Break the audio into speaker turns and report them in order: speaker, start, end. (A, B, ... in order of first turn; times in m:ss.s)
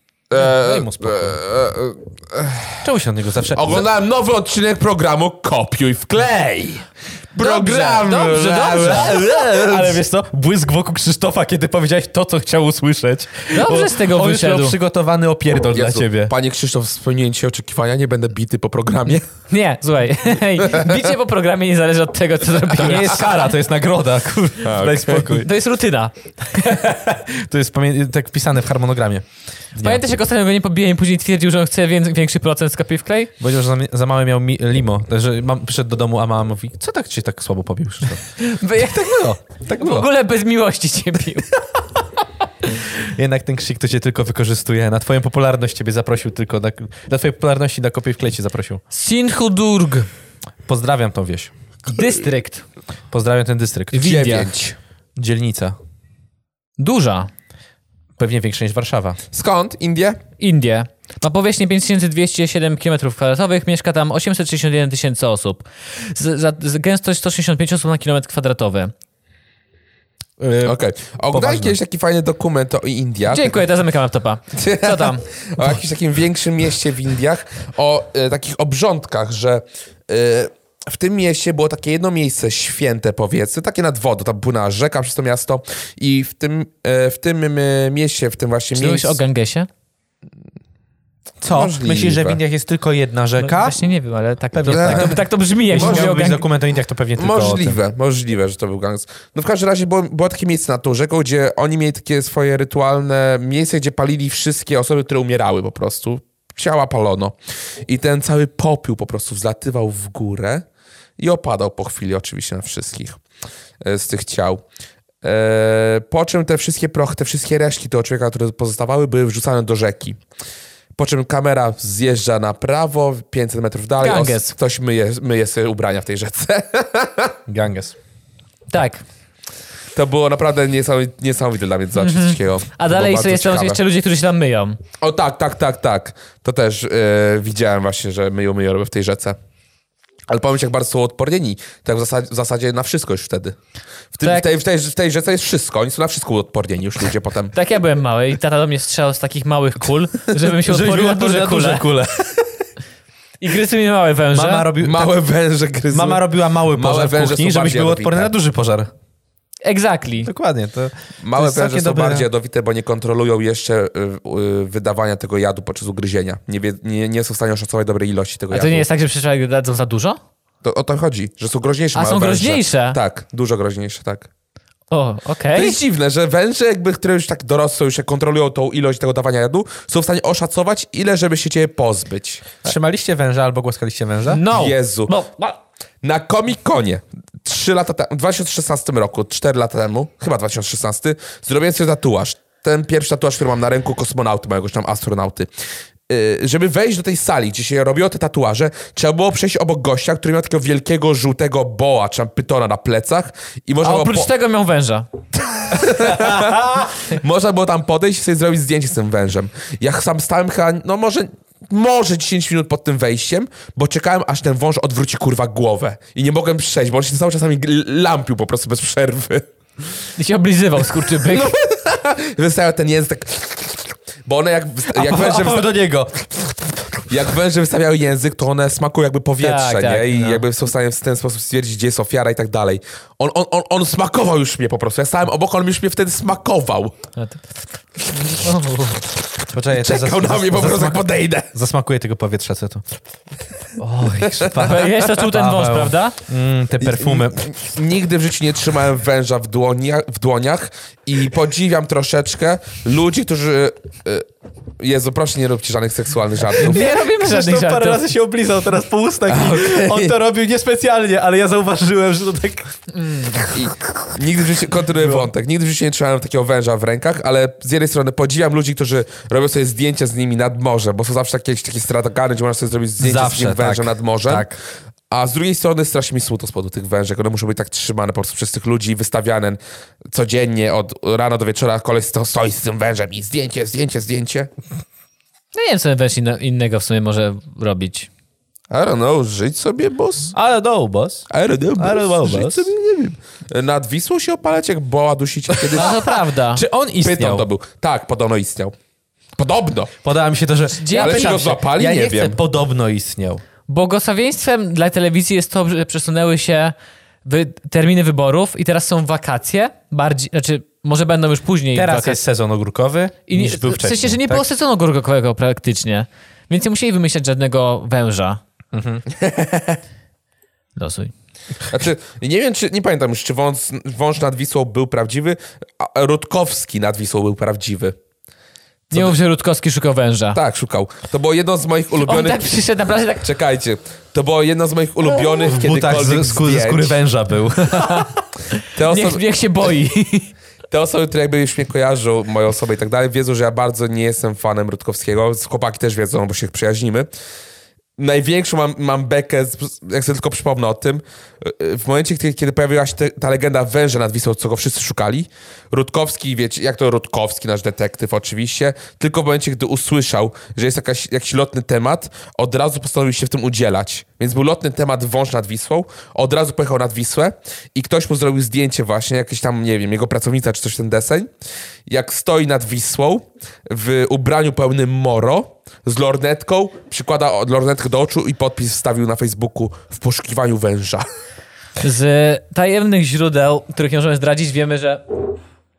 0:00.3-0:02.9 A
0:00.4-0:01.4 B
0:02.8-0:03.9 B
0:03.5-0:10.0 A
0:07.4-0:09.2 C
0:08.7-0:16.3 B
0:13.5-0:14.8 C
0:15.7-0:19.3 A
0:19.5-0:23.5 C
0:20.6-0:21.1 A
0:22.8-0:25.5 B
0:24.6-0:25.4 A
0:25.4-0:26.9 C
0:26.8-0:30.0 B
0:29.8-0:33.3 C
0:33.4-0:38.3 B
0:38.4-0:41.5 C
0:38.9-0:40.1 B
0:43.0-0:48.8 B
0:48.9-0:50.1 C
0:50.6-0:51.5 B
0:51.9-0:52.7 C
0:53.1-0:54.5 B
0:53.9-0:54.5 C
0:53.9-0:54.8 A
0:55.2-0:55.8 B
0:56.8-0:57.3 C
0:58.2-0:59.2 B
0:59.3-1:00.2 A
1:00.4-1:08.9 C
1:10.4-1:10.8 B
1:10.6-1:13.6 A
1:11.3-1:11.8 B
1:13.3-1:15.2 C
1:14.5-1:29.2 A
1:28.7-1:29.7 C
1:31.4-1:33.8 B
1:31.4-1:32.4 A
1:33.4-1:36.4 C
1:34.5-1:37.8 B
1:34.7-1:35.2 A
1:35.7-1:36.1 A
1:37.2-1:50.7 A
1:51.2-1:53.2 A
1:53.8-1:54.6 A
1:55.2-2:00.2 A
2:01.0-2:07.4 A
2:04.0-2:04.6 C
2:07.5-2:08.0 B
2:08.7-2:09.0 C
2:09.9-2:13.8 A
2:12.0-2:14.8 C
2:15.0-2:19.4 A
2:20.3-2:23.6 A
2:24.1-2:27.5 A
2:24.2-2:24.5 C
2:27.5-2:31.9 C
2:30.4-2:32.4 B
2:33.4-2:34.7 C
2:34.3-2:35.2 B
2:34.8-2:38.3 A
2:35.9-2:38.9 B
2:39.6-2:40.3 C
2:40.3-2:42.3 B
2:41.2-2:48.9 A
2:48.5-2:50.2 C
2:50.6-2:54.3 A
2:51.9-2:53.0 C
2:54.9-2:55.8 C
2:55.6-3:02.6 A
3:02.6-3:04.4 B
3:04.3-3:05.5 C
3:04.5-3:05.1 A
3:06.0-3:15.5 A
3:16.1-3:24.3 A
3:23.8-3:25.1 C
3:25.7-3:39.5 A
3:40.2-3:41.6 C
3:41.2-3:45.8 A
3:44.9-3:46.7 B
3:47.1-3:57.0 A
3:49.4-3:50.4 C
3:58.1-3:59.0 C
3:59.5-4:02.8 B
3:59.7-4:01.5 A
4:03.8-4:07.5 B
4:04.2-4:04.7 A
4:04.6-4:06.2 C
4:06.8-4:14.3 A
4:14.8-4:16.9 A
4:16.6-4:23.6 B
4:16.6-4:18.0 C
4:19.3-4:20.1 A
4:23.0-4:23.4 C
4:23.5-4:34.5 A
4:25.0-4:25.3 B
4:33.0-4:34.6 B
4:35.1-4:44.5 A
4:45.5-4:48.1 C
4:48.7-4:50.4 A
4:50.3-4:52.7 B
4:51.3-4:56.1 A
4:55.5-4:57.5 B
4:55.7-4:56.6 C
4:57.0-4:58.7 A
4:59.4-4:59.9 A
5:00.0-5:03.4 B
5:00.8-5:01.4 C
5:01.0-5:02.4 A
5:03.7-5:12.2 C
5:11.7-5:14.4 B
5:13.3-5:18.4 C
5:18.7-5:19.0 B
5:19.2-5:19.8 A
5:20.8-5:21.1 C
5:21.7-5:28.0 A
5:28.9-5:30.4 C
5:30.4-5:32.5 A
5:32.0-5:33.3 C
5:33.2-5:37.0 A
5:35.4-5:38.1 B
5:37.7-5:40.3 C
5:38.7-5:39.2 A
5:40.7-5:47.1 A
5:48.0-6:11.3 A
6:11.9-6:21.1 A
6:21.8-6:25.0 C